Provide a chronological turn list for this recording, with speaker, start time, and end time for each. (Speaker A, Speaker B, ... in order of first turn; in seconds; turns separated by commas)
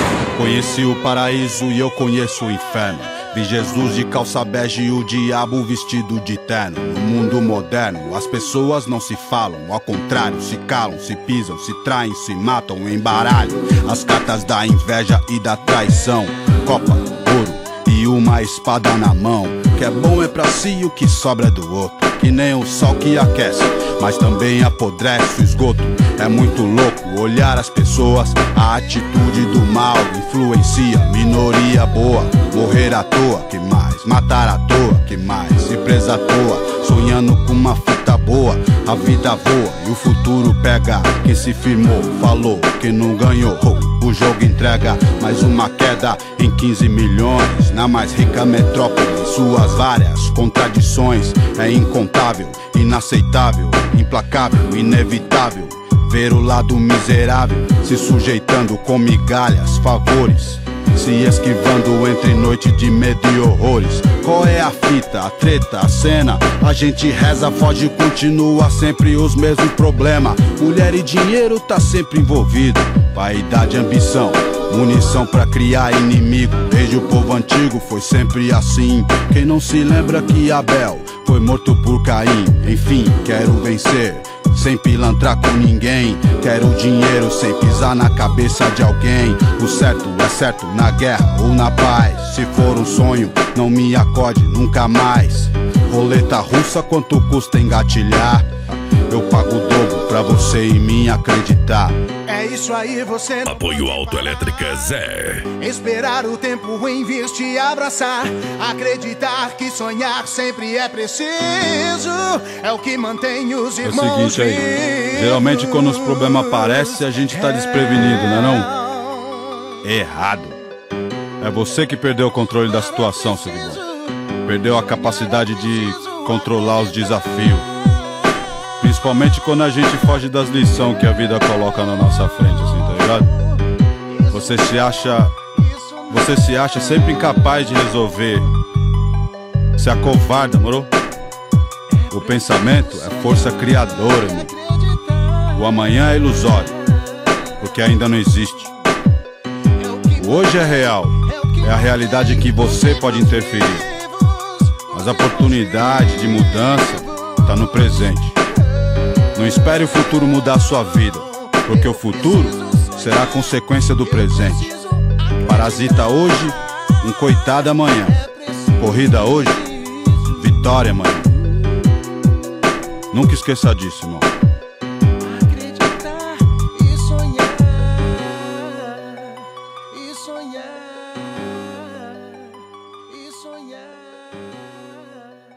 Speaker A: 0.4-102.0, Speaker B: 102.3-103.7, Speaker C: 103.5-105.5, Speaker B: 105.6-115.4, Speaker A: 113.8-118.7, Speaker A: 119.8-120.6, Speaker A: 121.4-123.8, Speaker A: 124.5-127.7, Speaker A: 128.8-133.3, Speaker B: 134.1-134.6, Speaker A: 134.3-135.4, Speaker B: 135.5-136.2, Speaker A: 136.1-138.5, Speaker A: 139.8-140.9, Speaker A: 142.1-144.5, Speaker B: 142.3-143.2, Speaker B: 144.3-145.2, Speaker A: 145.5-146.8, Speaker A: 147.6-148.7, Speaker B: 149.8-150.5, Speaker A: 150.2-153.9, Speaker B: 151.2-152.1, Speaker A: 154.9-158.4, Speaker A: 159.3-164.7, Speaker B: 161.8-163.4, Speaker B: 164.0-166.2, Speaker A: 165.4-168.2, Speaker B: 168.1-168.7, Speaker A: 168.8-169.6, Speaker B: 169.7-170.5, Speaker A: 170.3-171.3, Speaker A: 173.1-174.3, Speaker B: 175.2-177.9, Speaker B: 179.9-181.0, Speaker B: 183.1-184.1